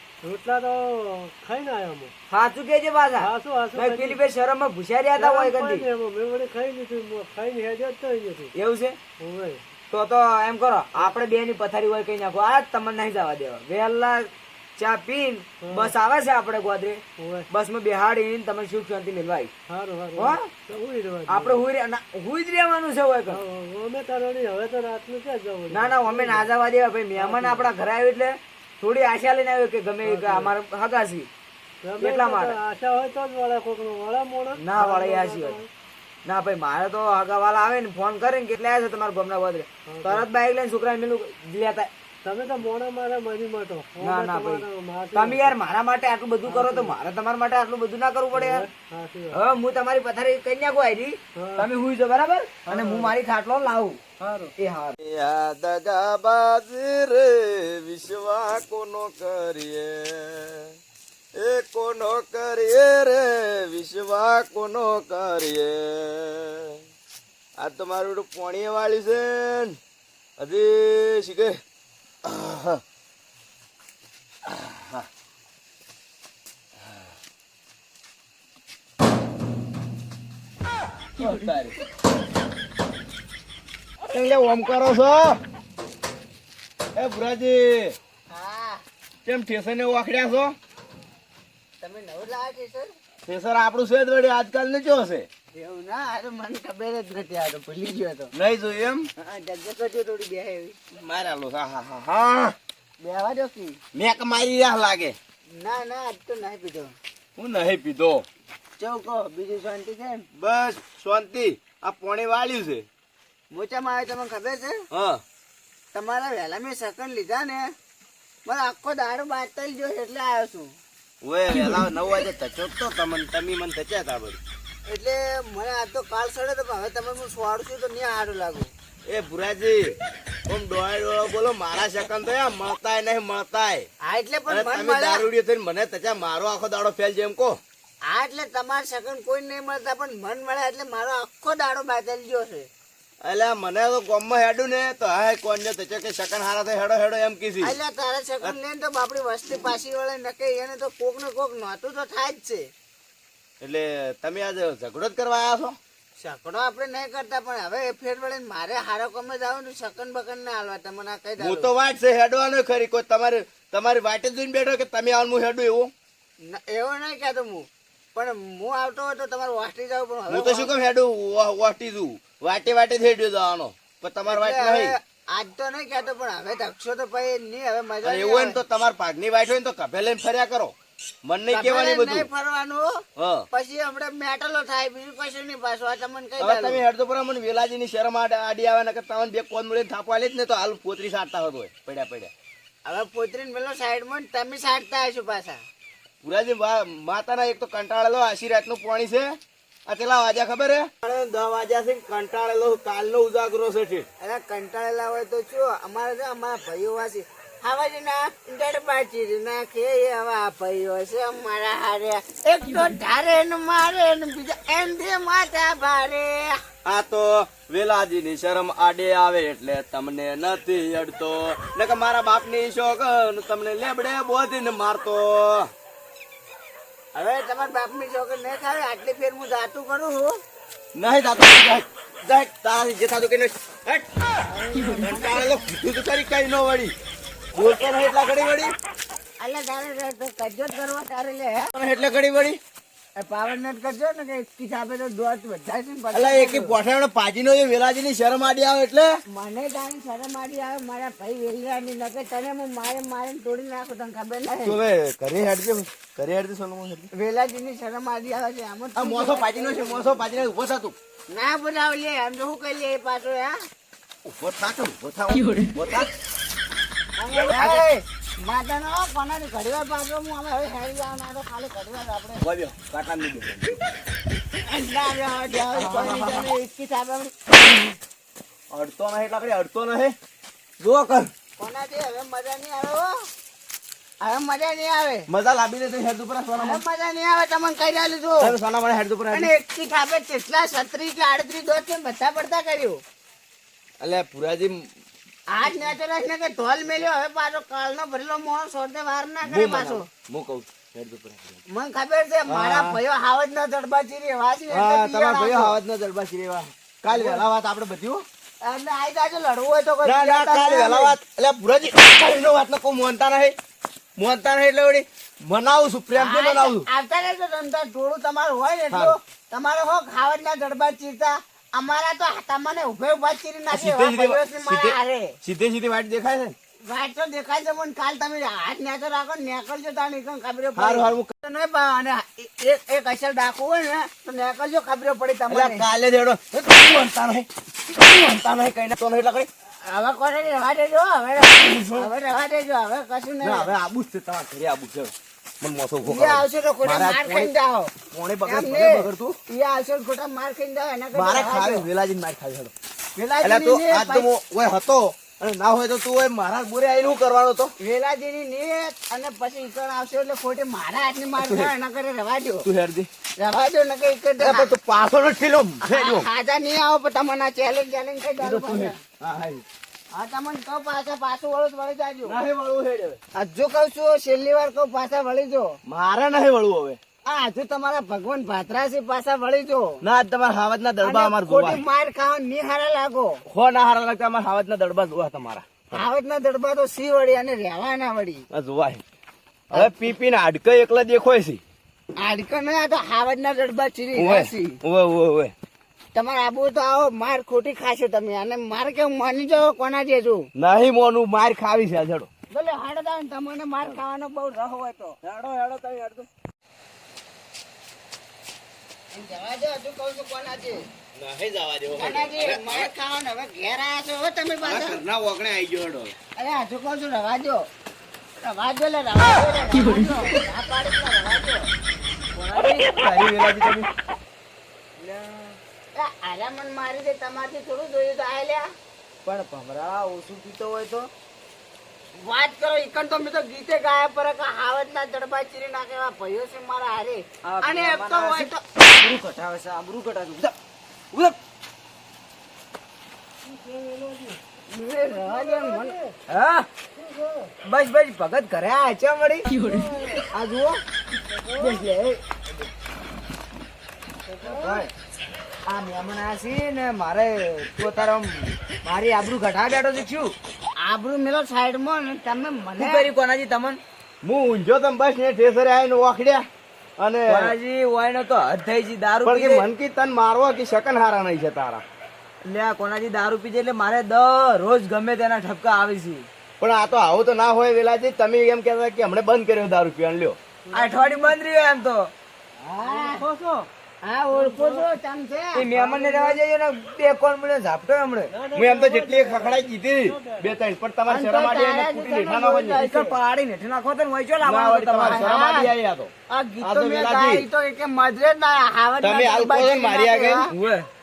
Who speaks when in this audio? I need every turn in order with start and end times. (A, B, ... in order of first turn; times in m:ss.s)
0:00.2-0:02.1 A
0:02.3-0:05.8 B
0:03.2-0:04.2 A
0:05.2-0:08.5 A
0:08.5-0:09.0 B
0:09.2-0:09.6 A
0:09.9-0:19.5 B
0:15.6-0:15.9 A
0:17.2-0:17.5 A
0:19.7-0:21.6 A
0:20.2-0:20.5 B
0:21.3-0:23.4 B
0:23.3-0:26.5 A
0:25.7-0:31.3 B
0:27.1-0:27.7 A
0:30.0-0:30.5 A
0:31.8-0:35.7 A
0:32.0-0:32.5 B
0:34.6-0:35.6 B
0:36.2-0:41.9 B
0:39.9-0:40.3 A
0:42.2-0:45.6 A
0:44.0-0:48.6 B
0:46.4-0:47.0 A
0:48.3-0:49.4 A
0:49.3-0:54.0 B
0:51.4-0:51.7 A
0:52.6-0:53.1 A
0:54.2-0:54.5 A
0:54.6-0:55.0 B
0:55.0-1:00.7 C
1:01.4-1:06.8 C
1:07.6-1:09.8 C
1:10.4-1:11.6 C
1:12.2-1:12.8 C
1:14.4-1:15.0 C
1:21.2-1:21.8 C
1:24.1-1:25.4 C
1:27.0-1:28.0 C
1:28.3-1:28.8 D
1:29.2-1:30.5 C
1:31.8-1:32.9 D
1:33.3-1:35.3 C
1:35.5-1:38.3 D
1:38.3-1:39.0 C
1:39.2-1:40.8 D
1:40.9-1:42.6 C
1:43.0-1:43.8 D
1:43.9-1:45.2 C
1:45.5-1:46.9 D
1:47.4-1:48.2 C
1:48.8-1:50.2 D
1:50.3-1:52.8 C
1:53.5-1:54.8 D
1:54.9-1:55.2 C
1:55.9-1:57.6 D
1:58.4-2:00.7 D
2:01.2-2:04.4 C
2:04.9-2:08.7 D
2:09.1-2:13.9 C
2:14.0-2:15.2 D
2:14.5-2:17.6 C
2:18.1-2:22.7 D
2:23.2-2:27.7 C
2:27.6-2:32.6 D
2:33.6-2:35.8 C
2:36.2-2:41.7 D
2:41.4-2:45.9 C
2:46.5-2:50.7 D
2:50.3-2:54.9 C
2:54.2-2:58.6 D
2:58.0-3:02.3 C
3:01.5-3:02.9 D
3:03.2-3:03.4 C
3:03.5-3:06.8 D
3:06.4-3:12.3 C
3:12.8-3:15.6 D
3:16.2-3:24.1 C
3:24.2-3:36.4 D
3:36.8-3:45.7 C
3:47.1-3:50.3 D
3:50.9-3:54.2 C
3:54.4-3:55.6 D
3:54.9-3:56.9 C
3:57.5-3:58.7 C
3:59.4-4:01.7 D
4:01.7-4:02.6 C
4:03.2-4:06.8 D
4:06.1-4:09.1 C
4:09.3-4:14.8 D
4:14.6-4:17.1 C
4:17.1-4:20.2 D
4:19.0-4:20.9 C
4:21.3-4:23.5 D
4:24.2-4:26.1 C
4:27.2-4:32.4 D
4:27.5-4:27.8 C
4:32.4-4:33.8 C
4:34.7-4:37.9 D
4:35.7-4:36.4 C
4:38.7-4:40.2 C
4:40.8-4:41.3 B
4:41.6-4:43.1 D
4:44.2-4:45.2 D
4:45.3-4:46.8 C
4:46.5-4:48.5 D
4:48.4-4:49.5 C
4:49.3-4:53.0 D
4:54.0-4:54.8 C
4:55.5-5:00.0 D
4:59.4-5:01.6 C
5:01.7-5:05.8 D
5:02.5-5:03.0 C
5:04.7-5:08.2 C
5:07.1-5:07.4 D
5:08.6-5:11.2 D
5:10.0-5:13.6 C
5:14.2-5:16.8 C
5:16.2-5:25.4 D
5:23.7-5:26.5 C
5:26.9-5:35.9 D
5:30.8-5:31.3 C
5:35.5-5:39.5 C
5:39.8-5:43.7 D
5:41.6-5:42.1 C
5:43.4-5:47.5 C
5:46.0-5:47.9 D
5:48.1-5:49.4 C
5:48.4-5:51.9 D
5:51.1-5:52.7 C
5:53.2-5:54.3 D
5:53.4-5:57.7 C
5:57.8-6:02.7 D
6:01.4-6:01.7 C
6:02.6-6:03.1 C
6:03.4-6:04.7 D
6:04.4-6:06.3 C
6:05.8-6:09.0 D
6:08.4-6:09.6 C
6:10.1-6:12.4 D
6:12.2-6:13.2 C
6:13.3-6:15.8 D
6:15.8-6:17.0 C
6:17.2-6:20.0 D
6:20.0-6:21.8 C
6:21.0-6:23.4 D
6:23.5-6:26.0 C
6:25.9-6:28.4 D
6:28.5-6:29.0 C
6:29.7-6:31.6 C
6:32.2-6:34.8 D
6:34.2-6:35.5 C
6:36.1-6:40.5 D
6:40.5-6:42.3 C
6:42.5-6:44.6 D
6:44.5-6:46.2 B
6:49.1-6:50.8 D
6:51.2-6:52.9 C
6:51.9-6:55.0 D
6:54.6-6:56.1 C
6:56.4-6:57.6 D
6:58.4-7:01.7 D
7:02.3-7:02.9 B
7:02.6-7:03.9 C
7:05.0-7:05.6 B
7:05.9-7:08.6 D
7:09.2-7:11.1 B
7:12.2-7:18.6 D
7:17.4-7:20.5 B
7:23.4-7:24.4 A
7:24.7-7:25.9 D
7:25.0-7:26.1 A
7:26.3-7:26.7 B
7:27.0-7:27.5 A
7:27.6-7:29.5 B
7:29.5-7:30.2 A
7:30.3-7:30.8 B
7:31.3-7:31.9 A
7:31.6-7:32.2 B
7:34.3-7:34.8 A
7:34.6-7:34.9 B
7:35.7-7:40.3 B
7:40.8-7:43.1 D
7:42.8-7:43.8 B
7:44.2-7:46.4 C
7:47.0-7:47.5 C
7:47.3-7:49.6 B
7:49.2-7:51.8 C
7:52.4-7:56.3 B
7:56.6-8:00.4 C
8:00.7-8:01.4 A
8:00.7-8:02.1 B
8:02.6-8:03.2 D
8:02.8-8:03.7 A
8:04.0-8:05.7 D
8:04.3-8:04.9 A
8:05.5-8:08.3 B
8:05.7-8:06.4 A
8:08.3-8:10.6 A
8:08.5-8:12.8 C
8:11.1-8:13.2 D
8:12.8-8:15.3 B
8:14.4-8:17.4 C
8:15.0-8:15.7 D
8:16.3-8:20.5 D
8:19.0-8:20.4 C
8:20.5-8:20.9 B